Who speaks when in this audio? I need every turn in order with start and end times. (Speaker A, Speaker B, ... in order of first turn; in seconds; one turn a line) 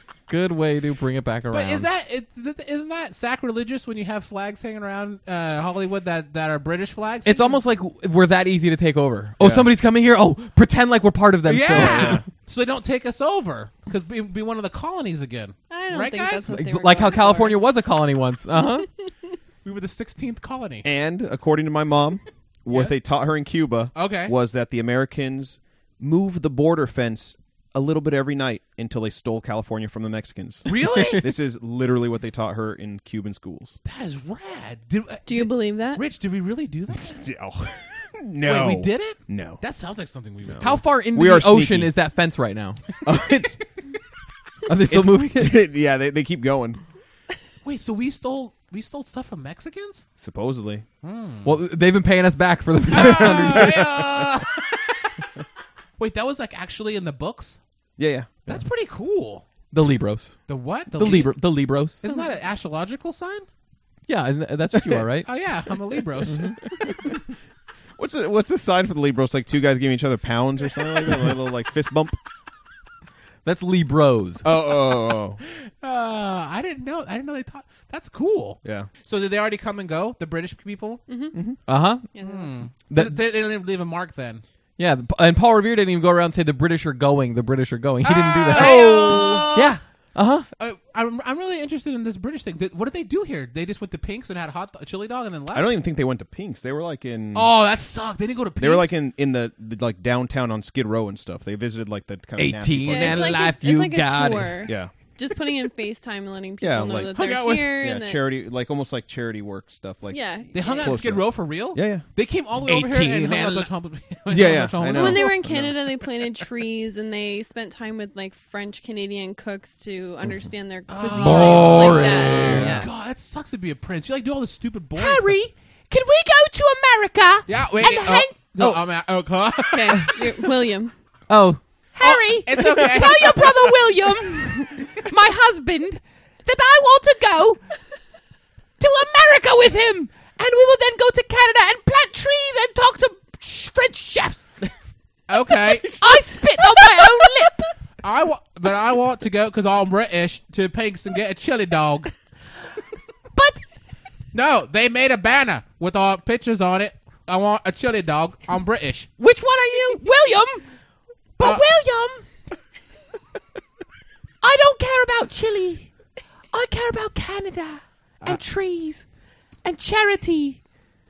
Speaker A: 0.3-1.9
Speaker B: 1.5-7.6
Speaker A: 7.2-12.2
Speaker C: 9.4-9.7
Speaker B: 11.4-17.3
Speaker C: 11.7-12.2
Speaker D: 15.7-17.6
Speaker A: 16.5-18.9
Speaker B: 19.6-20.9
Speaker C: 20.8-33.8
Speaker B: 22.7-23.0
Speaker B: 23.9-24.4
Speaker B: 30.6-31.2
Speaker B: 33.8-37.2
Speaker D: 35.3-36.0
Speaker C: 36.9-39.6
Speaker B: 38.4-40.8
Speaker C: 40.4-41.9
Speaker A: 40.6-42.8
Speaker C: 43.0-43.6
Speaker A: 44.7-45.6
Speaker C: 44.9-46.8
Speaker B: 47.6-50.0
Speaker C: 50.2-50.9
Speaker B: 51.0-51.6
Speaker A: 51.4-53.9
Speaker B: 52.9-54.7
Speaker C: 53.4-54.2
Speaker B: 56.0-57.6
Speaker C: 58.0-58.6
Speaker B: 58.5-59.4
Speaker A: 59.7-60.4
Speaker B: 60.5-61.4
Speaker A: 60.9-62.0
Speaker B: 62.0-63.5
Speaker A: 64.1-65.3
Speaker B: 65.2-66.5
Speaker A: 66.2-66.5
Speaker C: 68.0-72.2
Speaker A: 73.4-74.4
Speaker C: 74.4-75.4
Speaker B: 75.4-81.0
Speaker C: 78.6-78.9
Speaker D: 81.1-81.4
Speaker A: 81.7-82.1
Speaker D: 82.1-82.5
Speaker B: 82.2-84.4
Speaker A: 82.9-83.2
Speaker A: 84.8-90.5
Speaker B: 88.0-89.7
Speaker C: 88.5-89.7
Speaker B: 90.6-95.7
Speaker C: 95.5-97.5
Speaker B: 97.3-98.9
Speaker C: 98.6-103.5
Speaker A: 102.4-104.7
Speaker D: 102.9-108.3
Speaker C: 104.7-104.9
Speaker C: 106.6-112.0
Speaker B: 107.1-107.8
Speaker D: 110.1-111.0
Speaker B: 110.5-115.3
Speaker A: 112.7-113.7
Speaker C: 114.3-115.8
Speaker D: 114.9-122.9
Speaker B: 120.9-125.3
Speaker A: 121.0-122.8
Speaker C: 122.5-122.8
Speaker E: 125.0-128.4
Speaker B: 127.5-130.2
Speaker A: 128.6-128.8
Speaker D: 129.7-130.9
Speaker A: 131.3-131.6
Speaker E: 131.9-137.6
Speaker B: 132.0-133.6
Speaker E: 138.8-144.4
Speaker B: 145.3-146.0
Speaker E: 145.7-147.7
Speaker B: 148.0-152.1
Speaker E: 153.4-153.6
Speaker B: 154.3-159.1
Speaker E: 159.2-160.6
Speaker E: 161.4-162.2
Speaker B: 161.4-161.7
Speaker E: 164.4-165.9
Speaker E: 166.5-169.0
Speaker E: 169.6-170.6